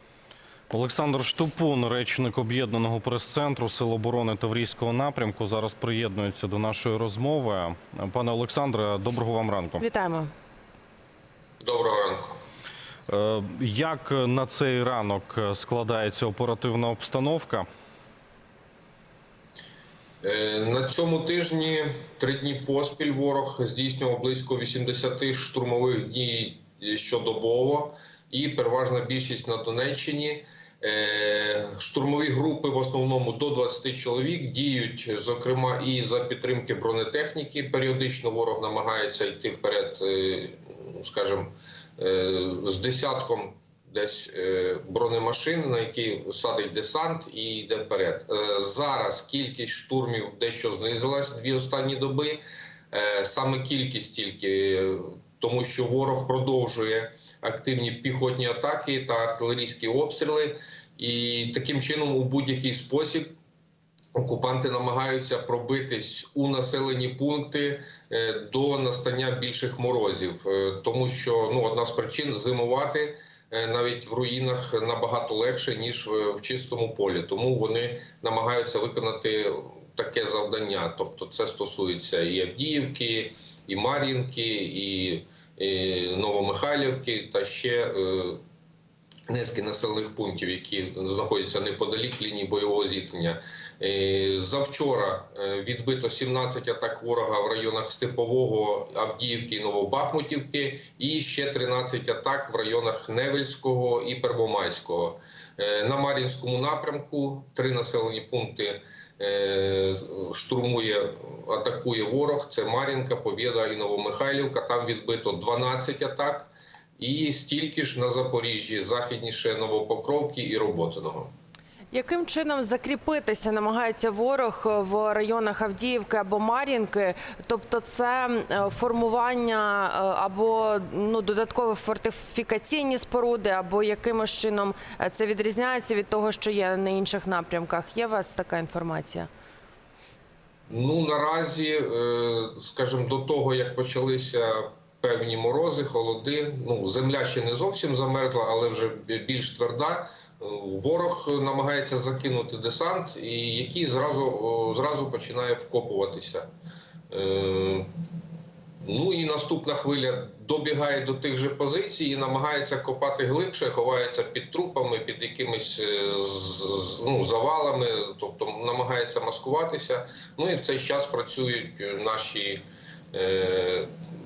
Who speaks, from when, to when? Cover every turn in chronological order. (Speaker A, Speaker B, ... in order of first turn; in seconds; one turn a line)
Speaker A: 0.7-9.8
Speaker B: 9.8-10.3
Speaker C: 11.6-12.3
Speaker A: 13.1-17.6
Speaker C: 20.2-52.4
Speaker C: 52.9-63.3
Speaker C: 64.1-88.4
Speaker C: 89.3-121.3
Speaker B: 121.9-139.3
Speaker C: 140.7-156.5
Speaker C: 157.1-157.9
Speaker C: 158.8-172.6
Speaker C: 173.1-173.9